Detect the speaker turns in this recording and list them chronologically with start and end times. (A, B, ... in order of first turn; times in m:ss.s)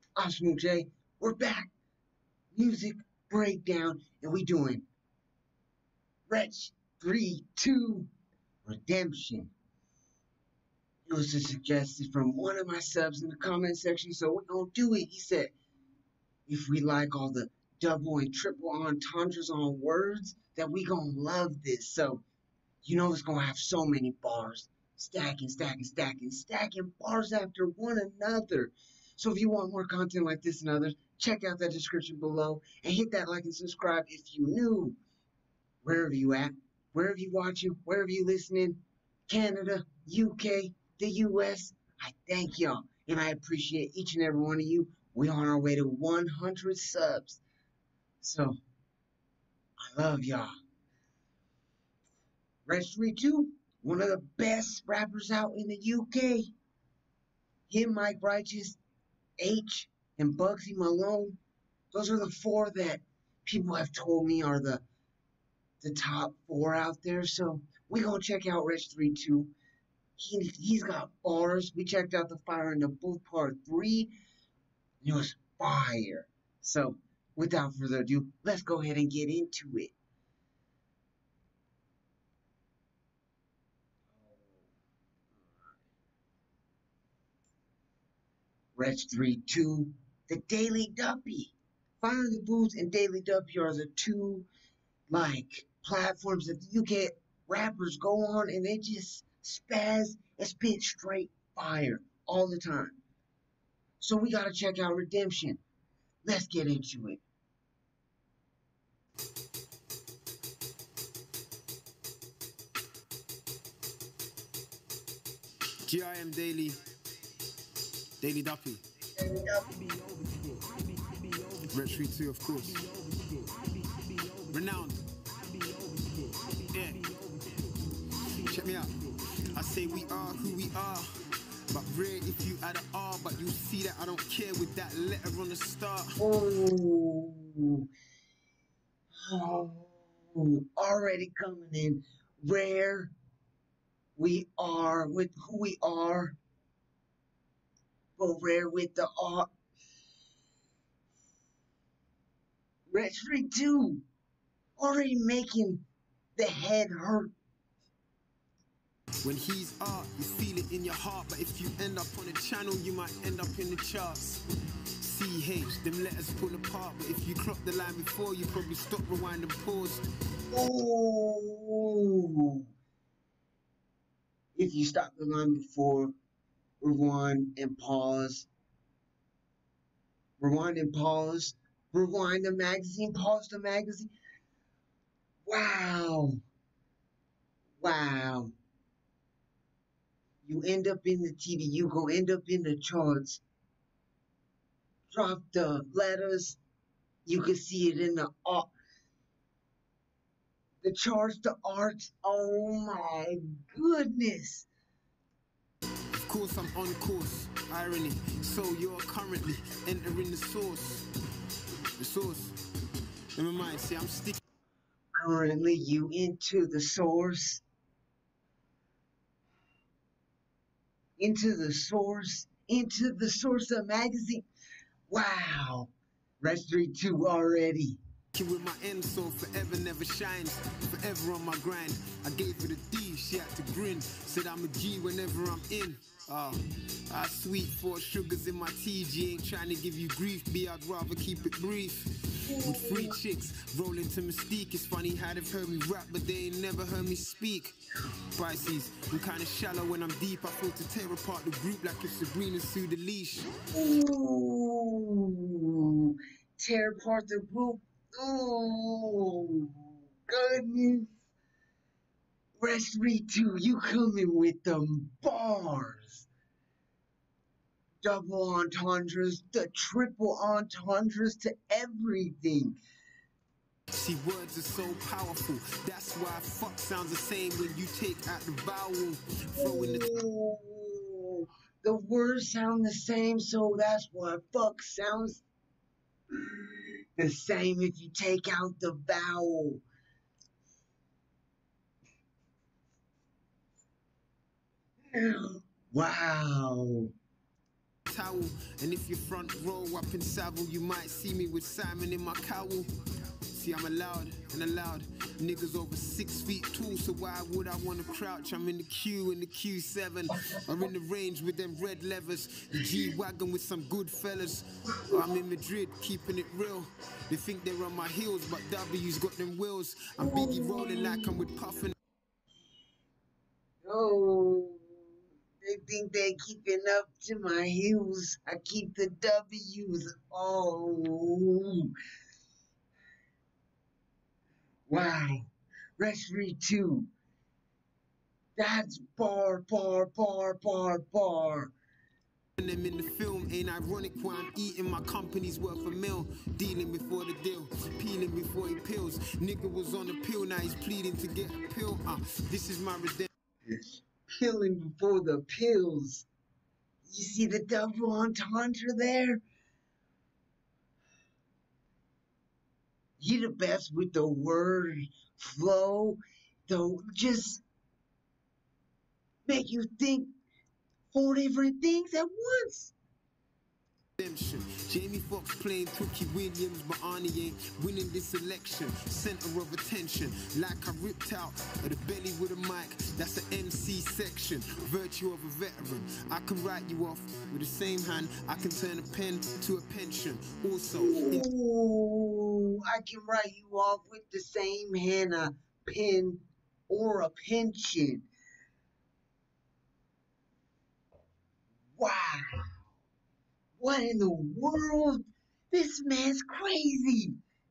0:00.2-0:01.7 A
0:02.5-0:04.8 A
0:06.3-0:08.1 A
0:08.7-0:09.5 A
0:11.1-0:15.5 A
0:16.5-0:22.2 A
0:22.8-0:35.0 A
0:35.8-0:47.4 A
0:48.2-0:48.6 A
0:49.9-0:50.5 A
0:52.7-0:56.5 A
0:57.7-0:58.8 A
0:59.4-1:01.4 A
1:01.9-1:04.8 A
1:05.8-1:09.5 A
1:10.2-1:14.1 A
1:15.0-1:19.9 A
1:28.8-1:34.5 A
1:35.1-1:43.0 A
1:44.0-1:45.6 A
1:46.2-1:47.2 A
1:55.9-1:56.8 B
1:58.2-1:58.8 B
1:59.2-1:59.7 A
2:01.7-2:02.9 B
2:04.4-2:05.0 B
2:06.2-2:07.2 B
2:08.4-2:08.9 B
2:09.5-2:11.1 B
2:11.7-2:16.2 B
2:16.2-2:17.8 A
2:19.2-2:23.1 A
2:24.2-2:26.4 A
2:28.2-2:29.5 A
2:32.9-2:34.0 A
2:34.8-2:35.8 A
2:36.4-2:37.3 A
2:39.2-2:44.4 B
2:45.0-2:50.0 B
2:50.5-2:52.7 A
2:54.6-2:56.1 A
2:56.8-2:58.5 A
3:00.4-3:04.1 A
3:05.5-3:06.4 A
3:07.8-3:08.5 A
3:10.4-3:13.4 A
3:15.1-3:16.6 A
3:17.3-3:18.7 A
3:20.8-3:24.7 A
3:26.2-3:31.1 B
3:32.0-3:32.6 B
3:33.4-3:34.4 B
3:35.1-3:37.6 A
3:41.2-3:44.5 A
3:45.1-3:48.0 A
3:48.3-4:07.8 B
4:02.5-4:03.2 A
4:08.4-4:13.5 B
4:13.7-4:21.1 A
4:22.6-4:26.3 A
4:28.0-4:32.8 A
4:34.0-4:40.1 B
4:39.6-4:45.4 A
4:47.2-4:49.8 A
4:55.1-4:57.1 A
4:58.1-5:02.9 B
5:03.5-5:22.0 B
5:20.2-5:21.4 A
5:23.8-5:24.9 A
5:25.6-5:31.9 A
5:34.9-5:37.1 A
5:38.6-5:41.7 A
5:42.6-5:53.3 B
5:53.7-5:56.3 A
5:57.1-5:59.4 A
6:03.2-6:07.6 A
6:09.5-6:10.3 A
6:11.1-6:12.9 A
6:14.2-6:31.5 B
6:30.9-6:38.3 A
6:42.0-6:42.7 A
6:43.8-6:47.4 A